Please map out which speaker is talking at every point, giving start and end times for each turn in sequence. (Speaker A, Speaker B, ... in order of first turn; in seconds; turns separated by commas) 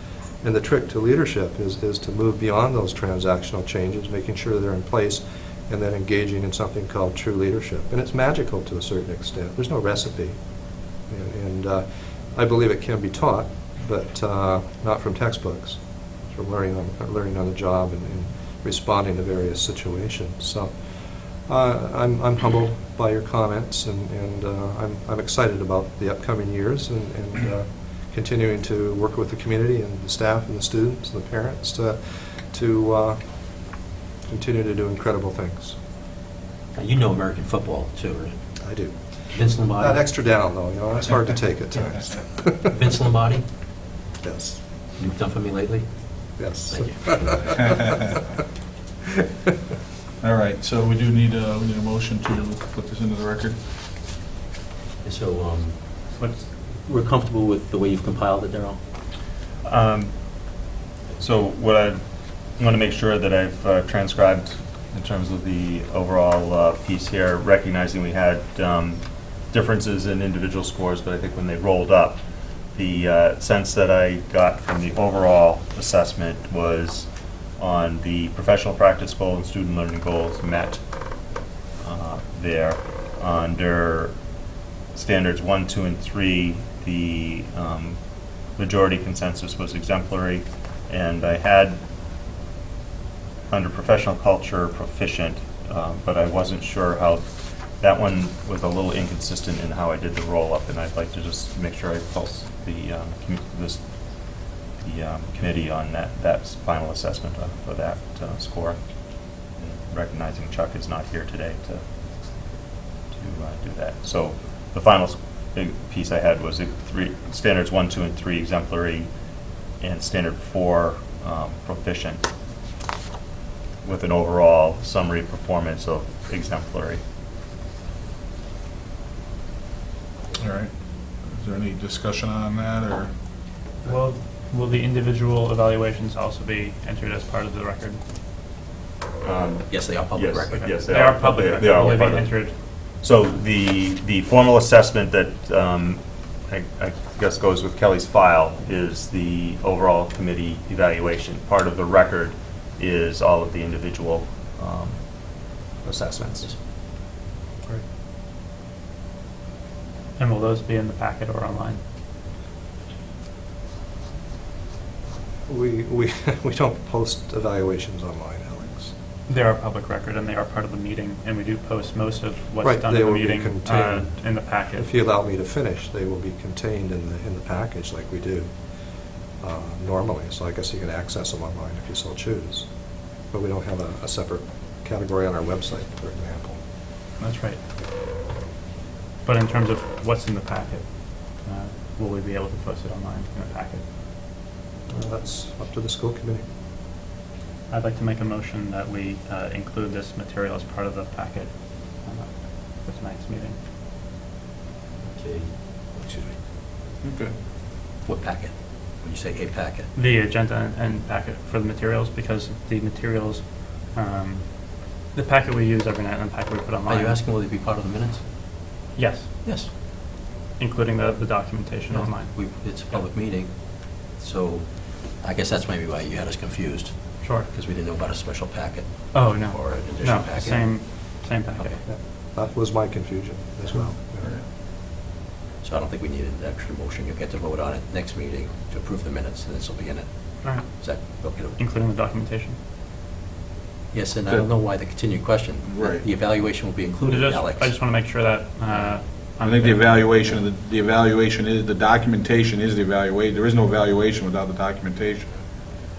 Speaker A: 0.4-10.4, Speaker A: 11.1-20.8, Speaker A: 21.4-33.2, Speaker A: 34.3-35.8, Speaker B: 36.7-38.3, Speaker A: 38.6-39.0, Speaker B: 39.3-40.0, Speaker A: 39.6-42.7, Speaker B: 42.7-43.5, Speaker A: 44.2-44.6, Speaker B: 45.0-47.5, Speaker A: 46.4-48.3, Speaker C: 50.2-53.6, Speaker B: 55.0-58.8, Speaker D: 59.6-60.5, Speaker D: 61.2-62.0, Speaker D: 62.5-84.2, Speaker D: 84.9-91.8, Speaker D: 93.5-97.3, Speaker D: 97.8-108.8, Speaker D: 109.4-111.8, Speaker D: 113.1-119.1, Speaker D: 119.8-122.2, Speaker D: 123.8-127.0, Speaker C: 130.3-133.1, Speaker E: 133.8-138.0, Speaker D: 139.2-142.4, Speaker B: 139.7-140.8, Speaker E: 140.5-142.5, Speaker D: 143.0-156.5, Speaker E: 160.2-161.8, Speaker A: 165.5-168.9, Speaker E: 169.3-174.9, Speaker A: 172.6-178.5, Speaker A: 179.4-182.7, Speaker A: 183.3-186.6, Speaker E: 187.2-187.6, Speaker E: 189.2-193.8, Speaker A: 194.9-196.4, Speaker E: 197.7-203.6, Speaker B: 205.0-206.4, Speaker C: 207.0-207.3, Speaker B: 208.0-209.9, Speaker E: 209.9-217.2, Speaker B: 216.9-218.2, Speaker E: 218.9-223.0, Speaker B: 219.4-219.7, Speaker B: 221.9-231.1, Speaker E: 227.2-227.5, Speaker E: 229.1-231.8, Speaker A: 231.8-234.4, Speaker B: 235.6-241.6, Speaker E: 240.4-242.6, Speaker B: 243.9-247.8, Speaker C: 245.7-246.1, Speaker E: 247.0-250.1, Speaker B: 248.7-249.3, Speaker C: 249.4-255.3